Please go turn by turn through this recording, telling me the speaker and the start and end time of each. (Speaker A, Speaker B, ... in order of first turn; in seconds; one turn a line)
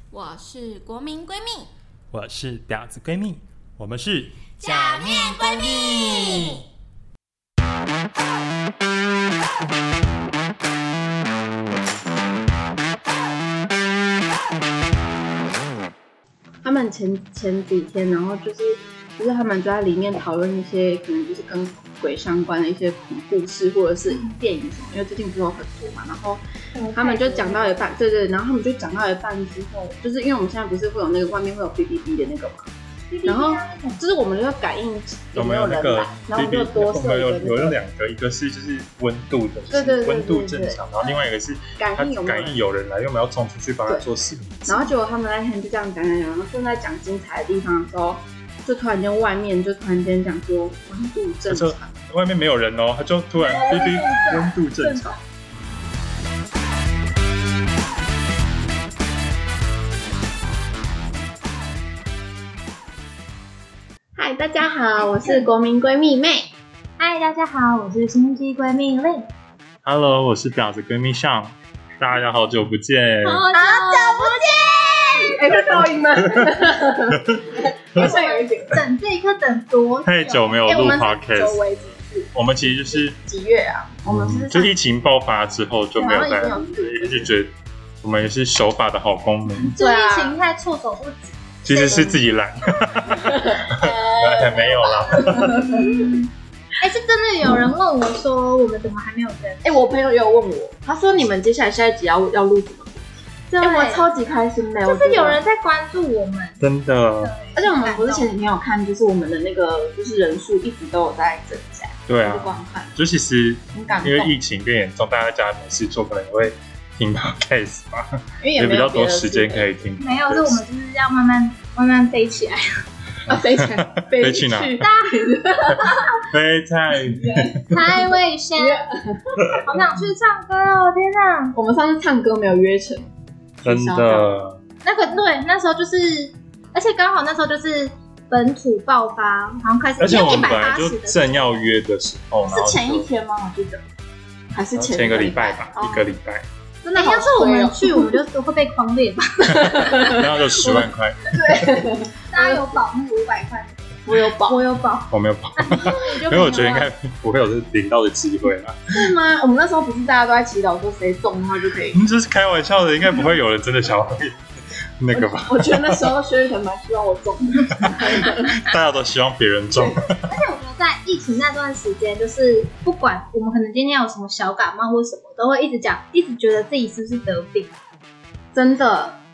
Speaker A: 0.1-5.2
Speaker B: 2.2-4.0
Speaker C: 4.5-6.6
Speaker D: 16.6-32.7
Speaker E: 24.1-24.4
Speaker E: 26.7-27.7
Speaker E: 33.1-34.0
Speaker D: 33.2-37.8
Speaker B: 35.3-44.9
Speaker D: 39.7-40.8
Speaker D: 41.8-42.5
Speaker D: 44.6-51.9
Speaker B: 51.5-55.2
Speaker D: 53.4-55.2
Speaker D: 64.2-66.5
Speaker E: 67.0-69.2
Speaker B: 69.8-73.5
Speaker E: 73.2-75.4
Speaker D: 73.5-78.8
Speaker E: 78.0-80.6
Speaker B: 80.0-81.6
Speaker D: 80.6-84.7
Speaker B: 82.3-83.2
Speaker B: 84.1-89.7
Speaker D: 86.0-87.3
Speaker E: 89.6-92.1
Speaker D: 89.8-90.4
Speaker B: 91.6-95.7
Speaker D: 91.9-92.2
Speaker D: 93.1-96.1
Speaker E: 95.4-96.3
Speaker E: 96.8-99.8
Speaker D: 99.6-105.4
Speaker E: 103.5-104.0
Speaker E: 104.8-106.6
Speaker B: 106.6-107.3
Speaker E: 107.2-108.3
Speaker D: 107.5-113.0
Speaker B: 112.1-120.6
Speaker D: 113.7-114.3
Speaker D: 118.4-119.7
Speaker E: 120.0-122.8
Speaker B: 123.3-124.8
Speaker D: 123.3-125.9
Speaker E: 124.8-126.2
Speaker B: 126.3-127.6
Speaker D: 127.1-128.0
Speaker E: 127.7-128.8
Speaker D: 128.6-129.5
Speaker E: 129.6-131.6
Speaker D: 131.5-134.4
Speaker B: 133.6-134.6
Speaker E: 134.8-141.5
Speaker B: 140.0-143.1
Speaker D: 142.5-143.8
Speaker D: 144.5-146.1
Speaker B: 144.8-146.5
Speaker D: 146.8-148.2
Speaker E: 146.9-150.2
Speaker D: 149.5-152.7
Speaker B: 150.1-151.7
Speaker E: 152.3-156.9
Speaker D: 154.1-154.6
Speaker B: 155.1-159.1
Speaker D: 156.1-156.8
Speaker D: 158.9-162.0
Speaker B: 161.9-164.4
Speaker B: 165.0-166.1
Speaker D: 165.1-168.6
Speaker B: 167.8-170.3
Speaker E: 170.2-177.7
Speaker D: 178.5-179.2